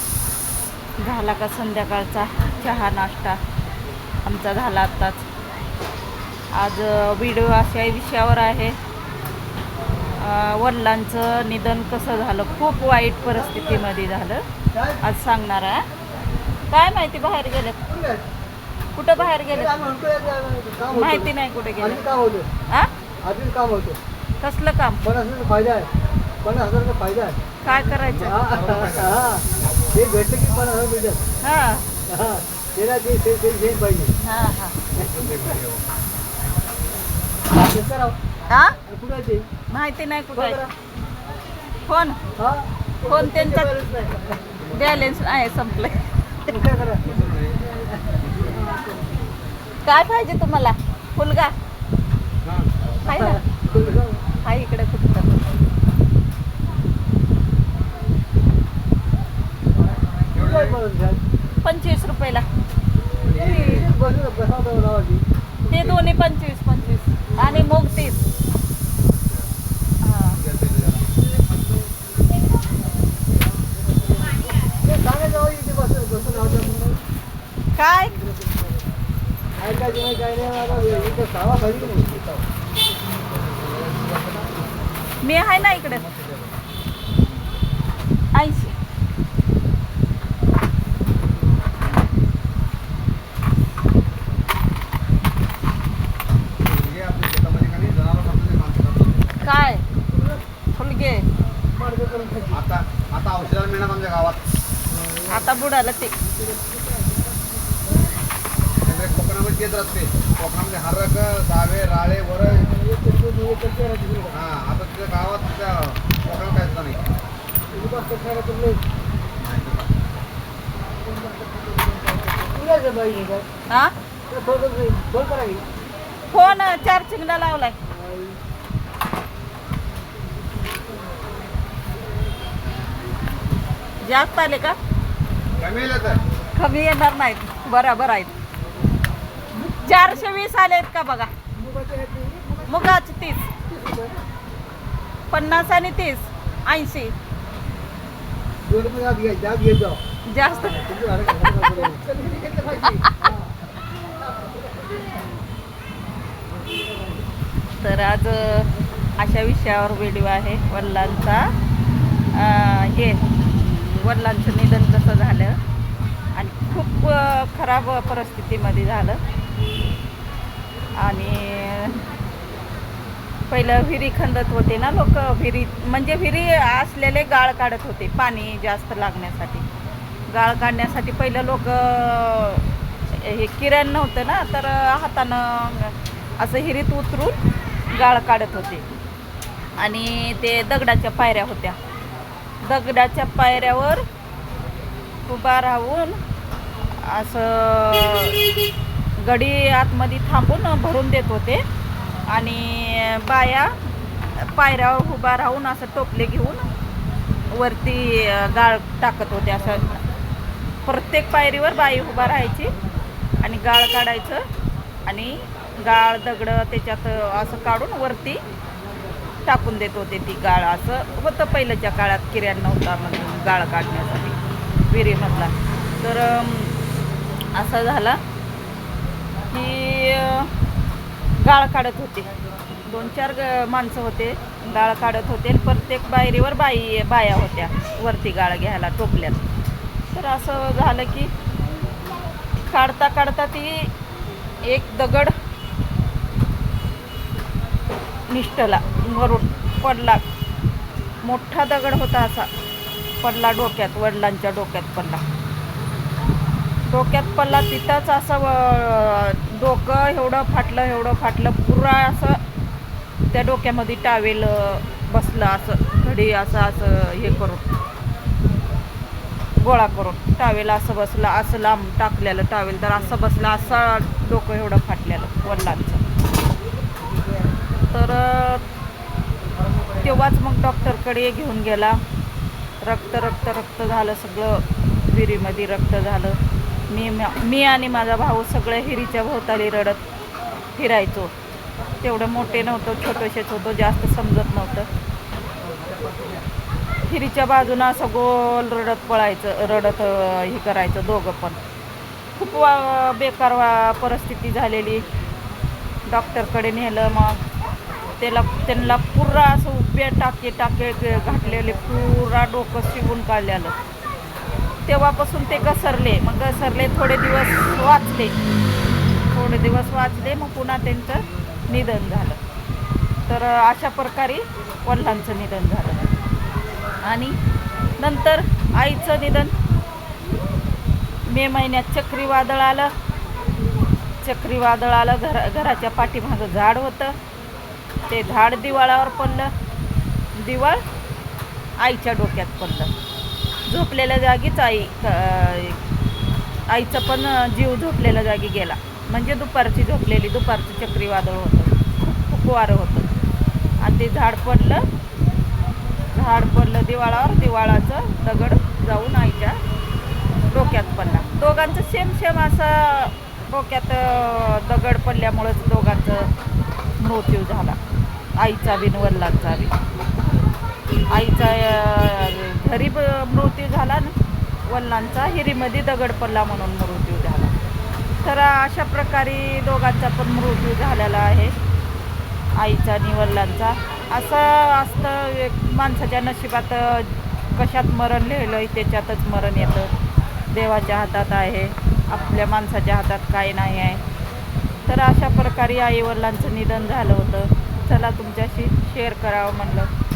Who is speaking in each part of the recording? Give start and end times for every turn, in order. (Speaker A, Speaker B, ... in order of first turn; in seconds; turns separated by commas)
Speaker A: 1.0-3.4, Speaker A: 4.2-5.2, Speaker A: 6.5-8.8, Speaker A: 10.2-14.4, Speaker B: 13.3-13.8, Speaker B: 14.7-15.0, Speaker A: 15.0-15.8, Speaker A: 16.7-17.8, Speaker B: 17.9-18.3, Speaker A: 18.9-19.7, Speaker B: 19.4-22.5, Speaker A: 20.9-22.0, Speaker B: 23.2-24.0, Speaker A: 24.4-25.0, Speaker B: 25.0-25.9, Speaker B: 26.4-27.4, Speaker A: 27.6-28.4, Speaker C: 28.0-29.9, Speaker B: 28.2-31.2, Speaker A: 31.4-31.9, Speaker B: 32.1-34.1, Speaker A: 34.2-34.8, Speaker C: 34.9-35.9, Speaker B: 37.5-38.2, Speaker A: 38.5-38.8, Speaker B: 38.9-39.4, Speaker A: 39.7-40.6, Speaker B: 40.3-40.7, Speaker A: 41.9-42.2, Speaker B: 42.4-44.4, Speaker A: 43.0-43.7, Speaker C: 44.6-45.1, Speaker A: 44.7-46.0, Speaker B: 46.5-47.1, Speaker C: 47.0-47.6, Speaker B: 47.7-49.2, Speaker C: 48.2-48.5, Speaker A: 49.8-51.5, Speaker C: 52.4-52.9, Speaker A: 53.0-53.4, Speaker B: 53.1-54.2, Speaker C: 53.7-54.0, Speaker A: 54.4-55.5, Speaker C: 60.3-60.8, Speaker B: 60.3-61.2, Speaker A: 61.6-62.4, Speaker C: 63.2-63.9, Speaker B: 63.3-65.2, Speaker A: 65.7-68.2, Speaker C: 69.0-69.5, Speaker A: 70.0-70.4, Speaker C: 70.4-71.1, Speaker B: 74.7-77.0, Speaker A: 77.8-78.2, Speaker B: 79.6-82.2, Speaker C: 79.8-80.1, Speaker C: 80.7-81.2, Speaker C: 83.3-84.7, Speaker A: 85.2-86.0, Speaker C: 85.9-86.5, Speaker A: 88.3-88.8, Speaker C: 96.6-99.2, Speaker A: 99.4-99.8, Speaker B: 100.1-100.4, Speaker A: 100.7-101.3, Speaker B: 101.7-102.6, Speaker C: 102.5-104.4, Speaker B: 104.9-105.5, Speaker A: 105.2-106.1, Speaker C: 108.8-112.7, Speaker B: 112.7-114.3, Speaker C: 114.3-117.0, Speaker B: 117.7-118.8, Speaker C: 119.4-119.9, Speaker B: 121.1-123.5, Speaker B: 124.3-125.6, Speaker A: 126.3-127.8, Speaker B: 127.9-128.4, Speaker A: 134.0-134.8, Speaker C: 135.6-136.2, Speaker A: 136.5-138.3, Speaker A: 139.6-141.3, Speaker B: 141.5-142.9, Speaker A: 142.7-143.5, Speaker B: 143.6-144.2, Speaker A: 145.3-147.1, Speaker B: 148.6-153.5, Speaker A: 150.2-150.8, Speaker B: 154.2-155.1, Speaker B: 156.6-157.2, Speaker A: 157.8-161.5, Speaker A: 162.3-165.6, Speaker A: 166.3-169.2, Speaker A: 171.0-172.0, Speaker A: 173.5-179.6, Speaker A: 180.3-187.4, Speaker A: 187.9-188.8, Speaker A: 189.8-191.8, Speaker A: 192.6-194.0, Speaker A: 195.2-196.2, Speaker A: 196.9-198.4, Speaker A: 199.2-201.6, Speaker A: 202.3-203.7, Speaker A: 204.3-206.7, Speaker A: 207.5-209.9, Speaker A: 210.8-212.7, Speaker A: 213.4-214.4, Speaker A: 215.1-218.4, Speaker A: 219.4-224.4, Speaker A: 224.9-226.7, Speaker A: 227.5-228.2, Speaker A: 229.5-230.5, Speaker A: 231.4-232.3, Speaker A: 232.8-239.4, Speaker A: 240.1-241.3, Speaker A: 242.7-243.9, Speaker A: 244.6-245.3, Speaker A: 248.3-250.2, Speaker A: 251.2-252.5, Speaker A: 253.2-255.2, Speaker A: 256.9-262.4, Speaker A: 263.3-267.6, Speaker A: 269.6-276.0, Speaker A: 277.9-278.6, Speaker A: 280.0-282.0, Speaker A: 282.8-286.4, Speaker A: 286.9-290.0, Speaker A: 290.8-291.3, Speaker A: 292.0-294.9, Speaker A: 297.1-301.6, Speaker A: 302.4-305.1, Speaker A: 306.1-307.4, Speaker A: 308.2-313.7, Speaker A: 314.9-318.3, Speaker A: 319.3-322.4, Speaker A: 323.3-326.1, Speaker A: 327.0-327.4, Speaker A: 328.0-329.5, Speaker A: 331.3-332.9, Speaker A: 334.2-337.1, Speaker A: 338.1-339.5, Speaker A: 340.3-340.8, Speaker A: 341.8-342.9, Speaker A: 343.7-345.8, Speaker A: 346.7-353.1, Speaker A: 353.8-354.9, Speaker A: 356.1-359.6, Speaker A: 360.5-366.3, Speaker A: 367.0-367.8, Speaker A: 368.4-369.7, Speaker A: 371.1-374.1, Speaker A: 374.6-377.5, Speaker A: 378.2-381.5, Speaker A: 382.5-389.9, Speaker A: 390.5-394.0, Speaker A: 394.9-399.9